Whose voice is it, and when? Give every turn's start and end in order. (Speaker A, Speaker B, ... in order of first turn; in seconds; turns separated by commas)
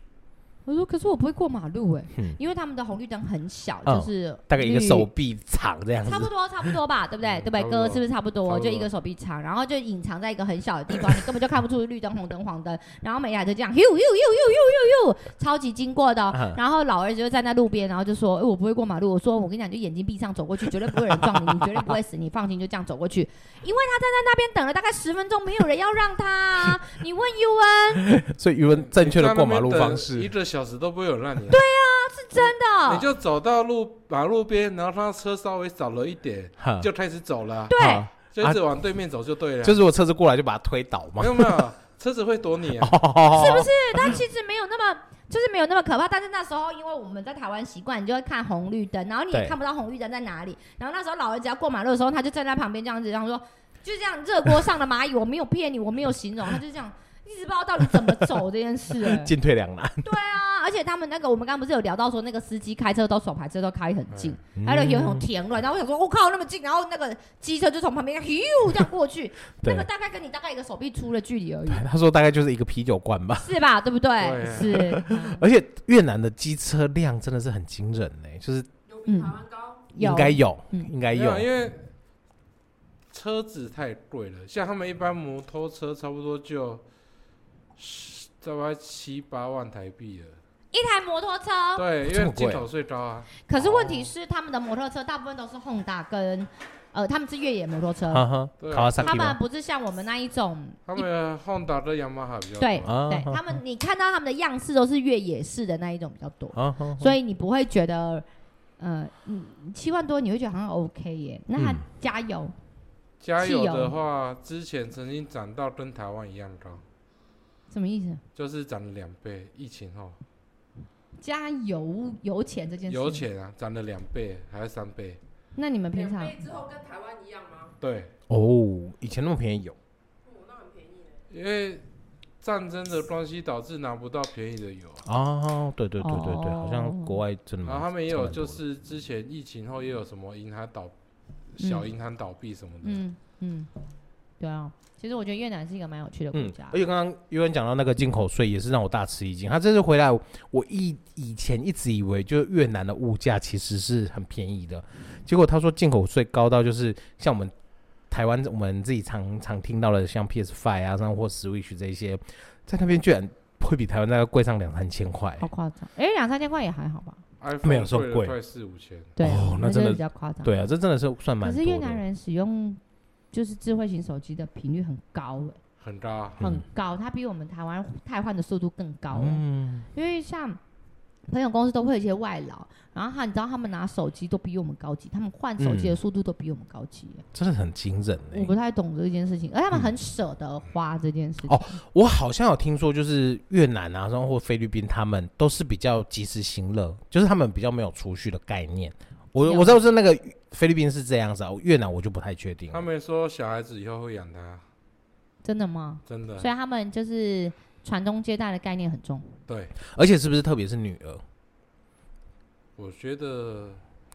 Speaker A: 0.7-5.1, Speaker B: 3.9-6.8, Speaker A: 6.0-28.2, Speaker C: 7.2-8.9, Speaker B: 16.3-16.6, Speaker B: 28.1-30.3, Speaker C: 28.9-31.6, Speaker A: 31.5-33.1, Speaker C: 32.9-39.8, Speaker B: 36.6-36.9, Speaker A: 37.7-38.1, Speaker B: 37.8-38.6, Speaker B: 39.6-41.6, Speaker C: 41.2-43.0, Speaker B: 42.8-44.2, Speaker A: 43.3-59.3, Speaker B: 57.9-58.2, Speaker B: 58.9-60.1, Speaker A: 60.0-71.8, Speaker C: 64.1-64.4, Speaker B: 64.6-65.3, Speaker B: 69.6-69.9, Speaker B: 71.7-73.5, Speaker A: 73.4-75.4, Speaker C: 74.2-74.8, Speaker B: 74.6-78.7, Speaker D: 78.9-79.9, Speaker A: 79.1-79.4, Speaker A: 79.9-80.9, Speaker B: 80.0-81.5, Speaker C: 81.1-81.9, Speaker C: 83.1-86.8, Speaker C: 87.8-90.4, Speaker A: 90.7-91.9, Speaker C: 91.8-94.1, Speaker B: 92.0-92.7, Speaker A: 93.5-98.3, Speaker B: 98.1-99.4, Speaker C: 98.6-99.3, Speaker A: 99.0-101.0, Speaker C: 100.9-102.9, Speaker A: 102.6-108.2, Speaker B: 102.8-103.6, Speaker B: 106.5-107.2, Speaker A: 108.8-112.5, Speaker B: 111.6-111.8, Speaker C: 113.2-116.8, Speaker A: 113.4-114.0, Speaker A: 117.7-118.2, Speaker C: 118.4-120.2, Speaker A: 121.2-123.3, Speaker C: 122.9-125.2, Speaker A: 125.6-126.4, Speaker D: 125.9-127.8, Speaker C: 127.8-128.1, Speaker B: 128.3-129.8, Speaker D: 130.2-131.2, Speaker C: 131.3-131.8, Speaker C: 132.4-135.0, Speaker B: 135.0-138.6, Speaker A: 136.0-137.2, Speaker C: 137.7-140.9, Speaker C: 141.6-143.0, Speaker A: 141.6-141.9, Speaker A: 142.8-143.7, Speaker A: 144.4-146.8, Speaker B: 146.3-157.5, Speaker B: 158.1-165.5, Speaker A: 165.4-167.2, Speaker C: 167.4-169.2, Speaker B: 167.6-168.3, Speaker A: 169.2-170.6, Speaker B: 169.2-172.0, Speaker A: 171.4-172.8, Speaker A: 173.3-175.6, Speaker C: 175.8-176.4, Speaker B: 176.4-176.7, Speaker A: 176.4-180.6, Speaker B: 179.1-179.9, Speaker A: 181.3-187.2, Speaker B: 185.6-186.0, Speaker B: 187.3-188.5, Speaker A: 188.3-191.8, Speaker B: 191.5-202.8, Speaker A: 199.4-199.8, Speaker C: 202.7-204.6, Speaker A: 205.4-209.3, Speaker C: 206.1-206.5, Speaker C: 209.5-209.8, Speaker B: 209.8-211.2, Speaker C: 212.8-213.8